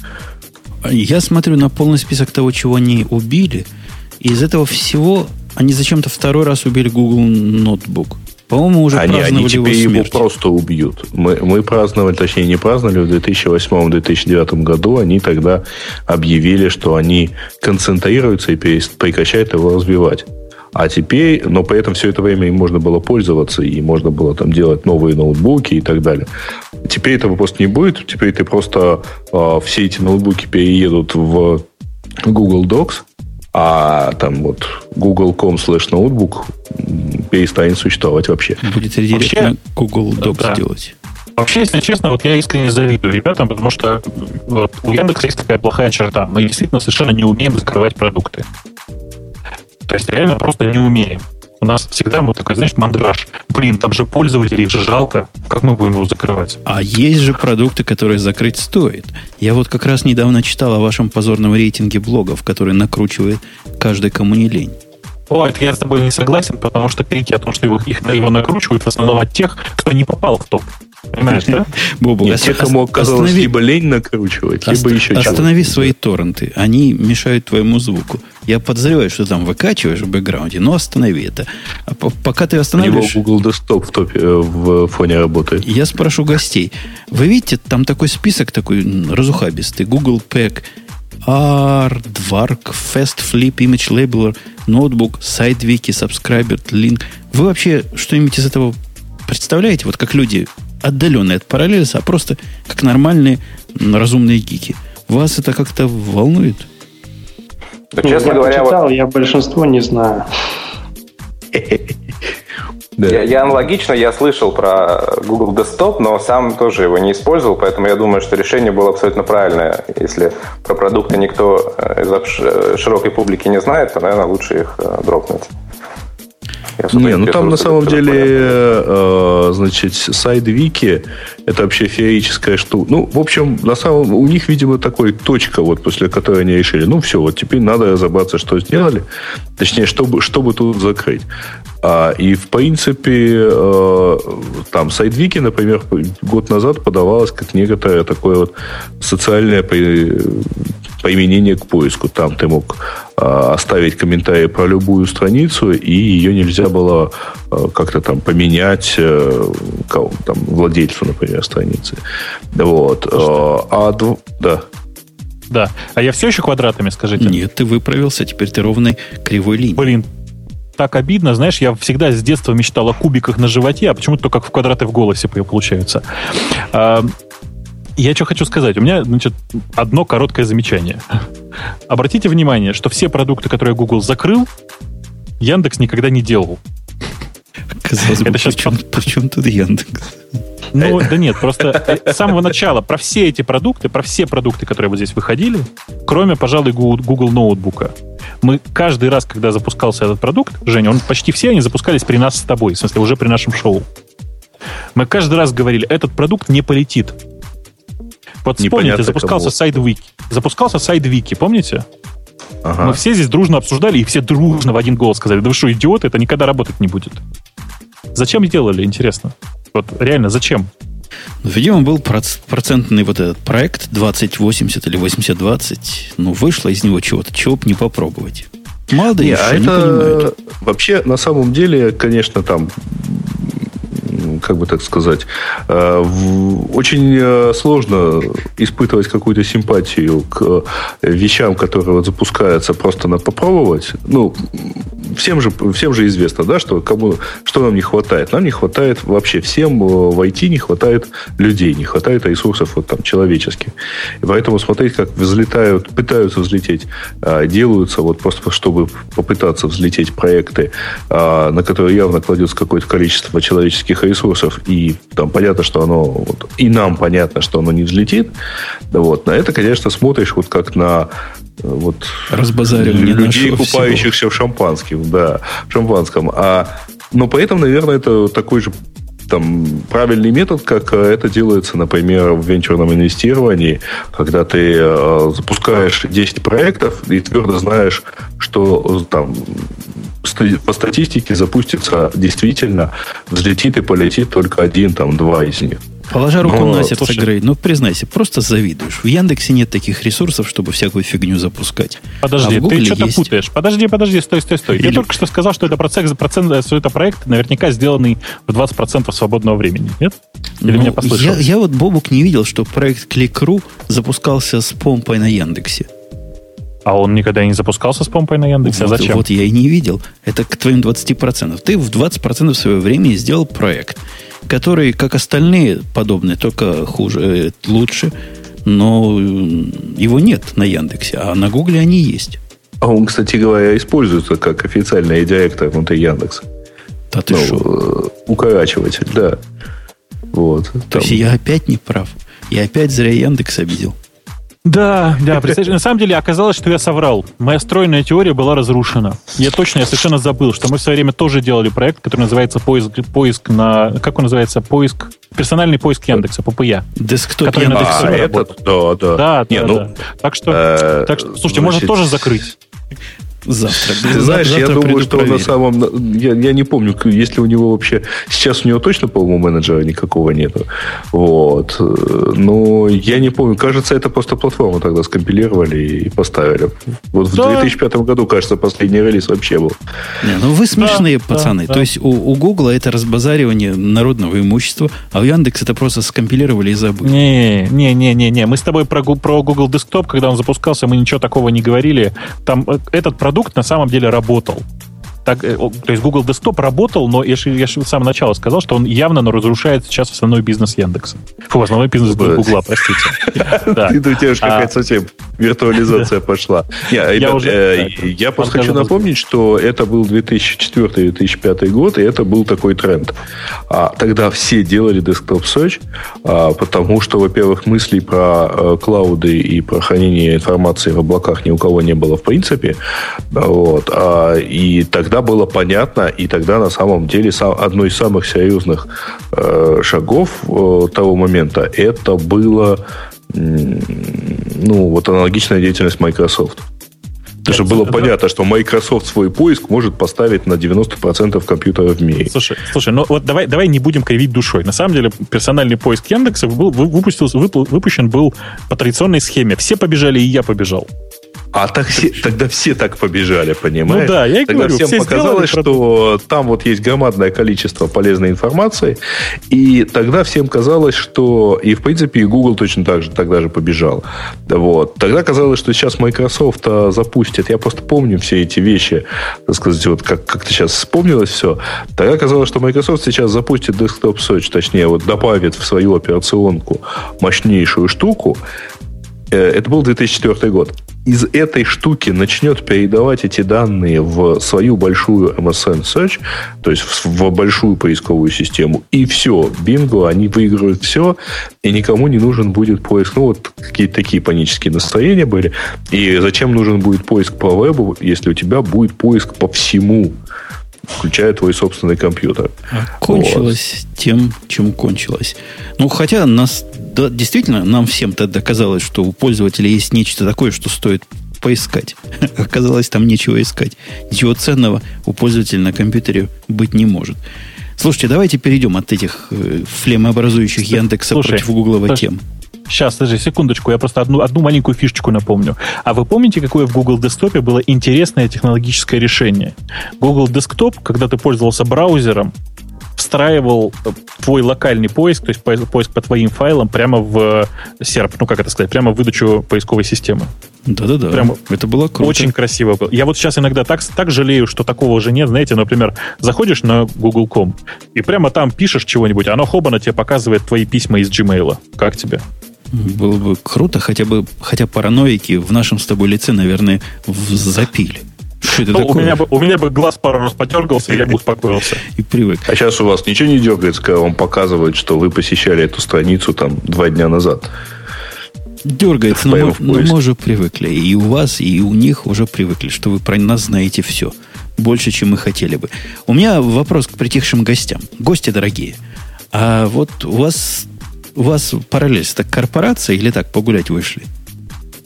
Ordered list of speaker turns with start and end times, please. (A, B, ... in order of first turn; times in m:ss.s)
0:00.8-0:03.6 A
0:04.2-0:10.2 A
0:08.9-0:26.3 B
0:26.8-0:31.7 B
0:32.2-0:38.6 B
0:38.6-0:40.9 A
0:39.1-0:39.5 C
0:40.2-0:40.6 C
0:41.4-0:48.4 C
0:49.8-0:56.6 C
0:56.6-1:04.8 A
1:05.3-1:11.7 C
1:11.3-1:13.5 A
1:12.2-1:15.9 B
1:14.6-1:23.2 A
1:22.8-1:25.6 B
1:25.6-1:30.7 A
1:31.2-1:46.7 A
1:47.9-1:48.8 D
1:48.0-1:50.2 E
1:51.5-1:51.9 B
1:53.0-1:53.5 B
1:53.0-2:05.5 D
2:06.8-2:08.6 D
2:06.9-2:19.0 B
2:19.6-2:21.3 B
2:21.8-2:42.0 B
2:42.5-2:44.6 B
2:45.5-2:47.4 C
2:47.2-2:49.9 A
2:49.8-2:50.0 C
2:50.8-2:57.1 C
2:58.0-3:01.0 C
3:01.9-3:04.5 C
3:05.4-3:06.6 C
3:07.8-3:10.2 A
3:08.1-3:08.8 C
3:10.7-3:23.8 C
3:24.9-3:27.2 C
3:28.4-3:31.8 C
3:28.6-3:29.5 B
3:32.6-3:33.0 B
3:32.8-3:37.2 C
3:38.1-3:40.7 C
3:41.4-3:50.3 A
3:49.2-4:28.3 B
4:28.9-4:38.7 B
4:32.3-4:34.1 A
4:39.3-4:55.8 B
4:56.1-5:03.3 A
4:56.4-4:56.9 B
4:57.0-4:57.2 C
5:02.2-5:11.4 C
5:04.7-5:05.0 A
5:10.6-5:15.9 A
5:16.8-5:19.2 C
5:18.6-5:28.1 A
5:28.6-5:32.4 A
5:32.8-5:36.4 B
5:37.1-5:37.7 A
5:37.3-5:39.4 B
5:40.3-5:41.2 B
5:40.9-5:44.0 A
5:44.6-5:56.8 C
5:57.0-5:58.2 A
5:57.4-5:58.5 C
5:57.7-5:59.9 B
5:59.2-6:02.6 C
6:00.5-6:02.2 B
6:03.4-6:05.5 A
6:03.8-6:19.8 B
6:17.4-6:17.7 C
6:20.2-6:27.2 A
6:20.8-6:21.8 C
6:27.0-6:34.6 C
6:35.2-6:44.7 C
6:42.1-6:53.1 B
6:47.1-6:49.0 C
6:53.7-7:02.8 B
7:03.3-7:16.6 B
7:17.4-7:18.1 C
7:17.5-7:22.3 B
7:22.3-7:30.9 C
7:31.5-7:39.0 B
7:33.9-7:35.8 C
7:39.5-7:58.4 B
7:59.3-8:20.1 B
8:21.0-8:23.5 B
8:22.7-8:37.2 A
8:37.8-8:42.2 A
8:41.1-8:42.0 C
8:42.7-8:52.3 C
8:53.0-9:00.3 C
9:00.7-9:02.3 A
9:01.1-9:01.4 C
9:02.0-9:12.2 C
9:12.7-9:19.2 A
9:18.6-9:21.8 C
9:21.9-9:22.5 A
9:22.5-9:27.5 B
9:28.6-9:38.8 A
9:29.1-9:30.0 B
9:39.3-9:44.1 A